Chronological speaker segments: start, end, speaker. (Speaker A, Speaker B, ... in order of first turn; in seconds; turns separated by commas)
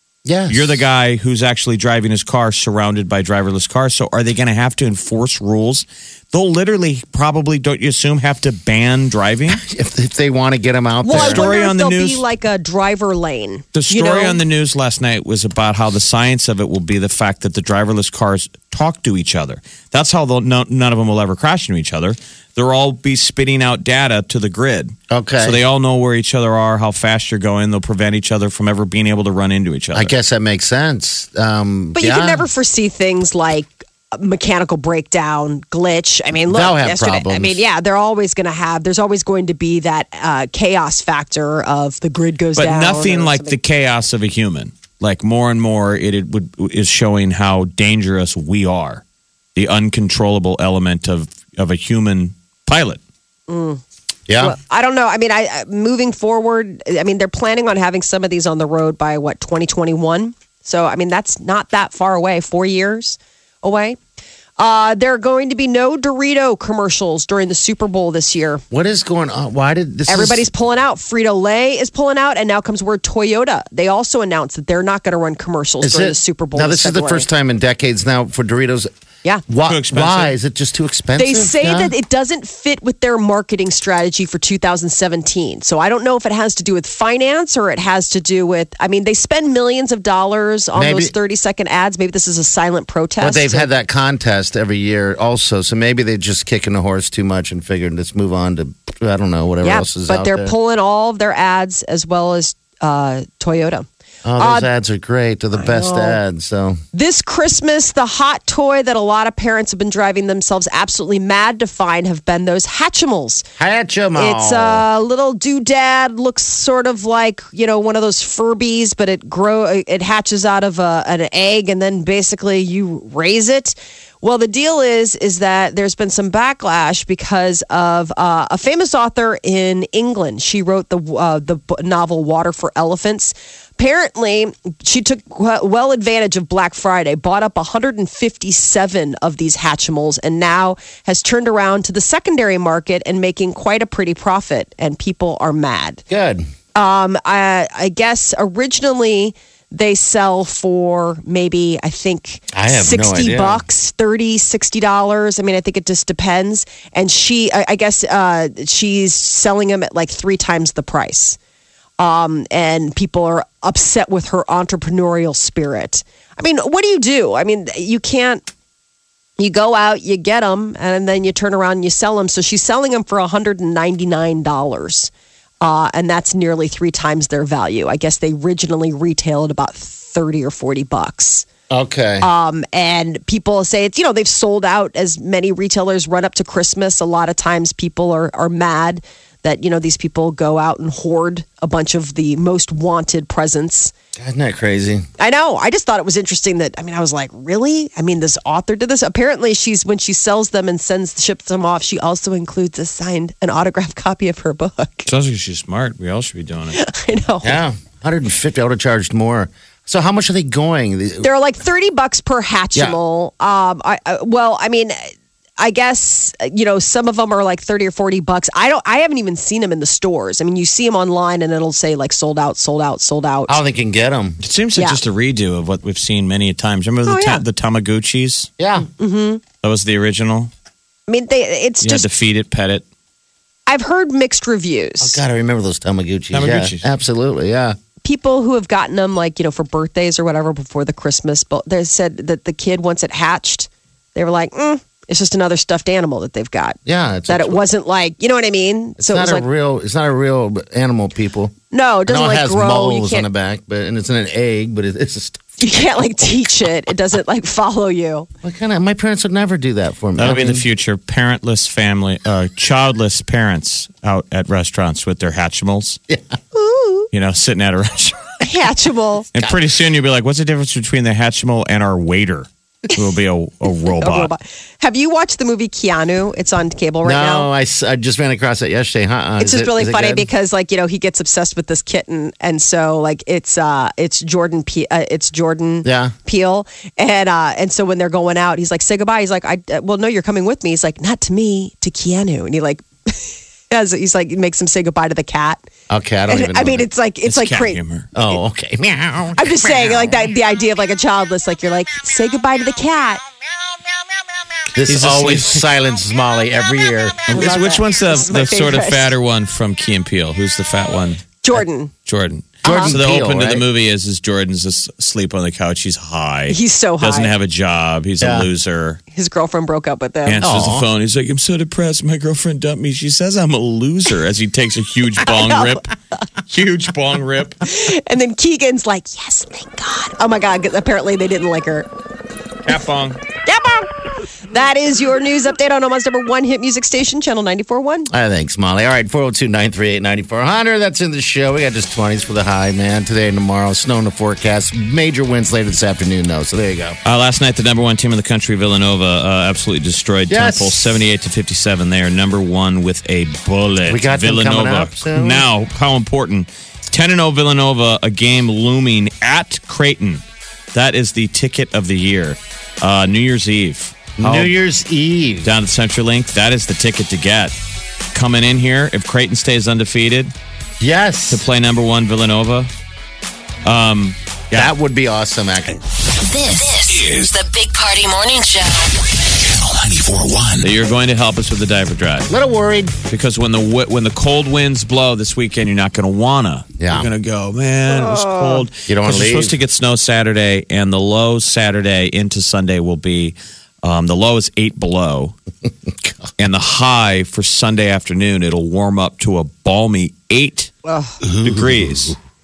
Speaker A: 0.2-0.8, Speaker B: 0.5-9.6, Speaker A: 9.5-11.5, Speaker C: 11.0-14.4, Speaker B: 11.1-12.2, Speaker B: 13.7-30.1, Speaker A: 25.1-25.6, Speaker A: 29.9-32.5, Speaker C: 32.0-43.6, Speaker A: 36.5-37.6, Speaker B: 42.6-49.0, Speaker B: 49.6-53.0, Speaker C: 53.5-53.8, Speaker A: 54.3-54.6, Speaker C: 54.4-64.0, Speaker C: 64.6-68.6, Speaker A: 68.7-70.5, Speaker C: 70.1-77.3, Speaker A: 75.8-78.9, Speaker A: 79.5-81.9, Speaker B: 79.7-80.3, Speaker C: 81.2-93.7, Speaker A: 90.8-91.1, Speaker A: 93.2-100.5, Speaker C: 99.6-103.9, Speaker A: 104.2-106.8, Speaker C: 104.4-104.7, Speaker C: 105.6-106.2, Speaker C: 106.9-113.5, Speaker A: 113.6-114.8, Speaker C: 114.2-146.0, Speaker A: 146.1-146.5, Speaker C: 146.8-161.4, Speaker A: 152.5-153.6, Speaker C: 162.0-168.4, Speaker C: 169.4-181.5, Speaker A: 181.7-182.3, Speaker C: 182.2-193.9, Speaker A: 194.2-195.1, Speaker C: 195.2-205.1, Speaker B: 205.1-206.8, Speaker C: 206.7-207.6, Speaker A: 207.4-211.3, Speaker C: 211.2-223.6, Speaker A: 223.5-224.4, Speaker B: 224.4-228.5, Speaker C: 227.1-227.4, Speaker A: 228.6-228.9, Speaker C: 228.8-229.4, Speaker B: 229.6-230.5, Speaker C: 231.1-232.1, Speaker B: 231.8-232.8, Speaker C: 233.7-235.2, Speaker A: 235.0-237.8, Speaker B: 236.3-236.9, Speaker C: 238.0-249.5, Speaker A: 246.8-247.6, Speaker A: 249.0-251.6, Speaker C: 251.7-253.3, Speaker A: 252.1-255.4, Speaker C: 255.6-258.3, Speaker A: 258.4-260.6, Speaker B: 260.2-266.0, Speaker C: 266.5-267.1, Speaker B: 267.1-268.3, Speaker C: 268.4-269.3, Speaker B: 269.3-274.3, Speaker C: 273.9-277.5, Speaker A: 277.0-280.3, Speaker C: 279.4-295.6, Speaker A: 285.8-286.1, Speaker A: 295.9-296.9, Speaker C: 296.3-297.8, Speaker B: 297.2-298.1, Speaker A: 298.1-300.3, Speaker C: 299.4-303.2, Speaker A: 304.7-307.3, Speaker B: 304.9-305.7, Speaker B: 307.3-311.2, Speaker C: 307.3-309.1, Speaker C: 311.4-311.9, Speaker B: 312.1-319.0, Speaker C: 312.6-312.9, Speaker A: 312.6-313.6, Speaker C: 316.5-317.3, Speaker A: 318.2-318.5, Speaker C: 319.1-320.5, Speaker B: 320.3-325.9, Speaker A: 320.4-320.9, Speaker C: 325.2-325.8, Speaker B: 326.5-327.6, Speaker C: 327.6-331.9, Speaker B: 332.6-333.2, Speaker C: 333.5-338.1, Speaker A: 338.1-347.0, Speaker B: 347.0-360.2, Speaker A: 350.3-350.9, Speaker A: 353.9-355.5, Speaker B: 360.7-364.5, Speaker A: 364.2-365.6, Speaker B: 365.4-367.5, Speaker B: 368.1-370.3, Speaker A: 370.8-371.5, Speaker B: 371.3-372.7, Speaker B: 373.6-374.7, Speaker A: 374.5-375.8, Speaker D: 376.2-378.9, Speaker E: 376.9-377.3, Speaker E: 379.2-380.7, Speaker B: 380.6-382.3, Speaker A: 382.3-383.0, Speaker B: 383.1-395.4, Speaker A: 386.8-387.1, Speaker C: 387.9-388.6, Speaker A: 388.9-389.6, Speaker B: 396.4-400.7, Speaker C: 400.9-401.2, Speaker A: 401.2-402.2, Speaker B: 401.4-402.1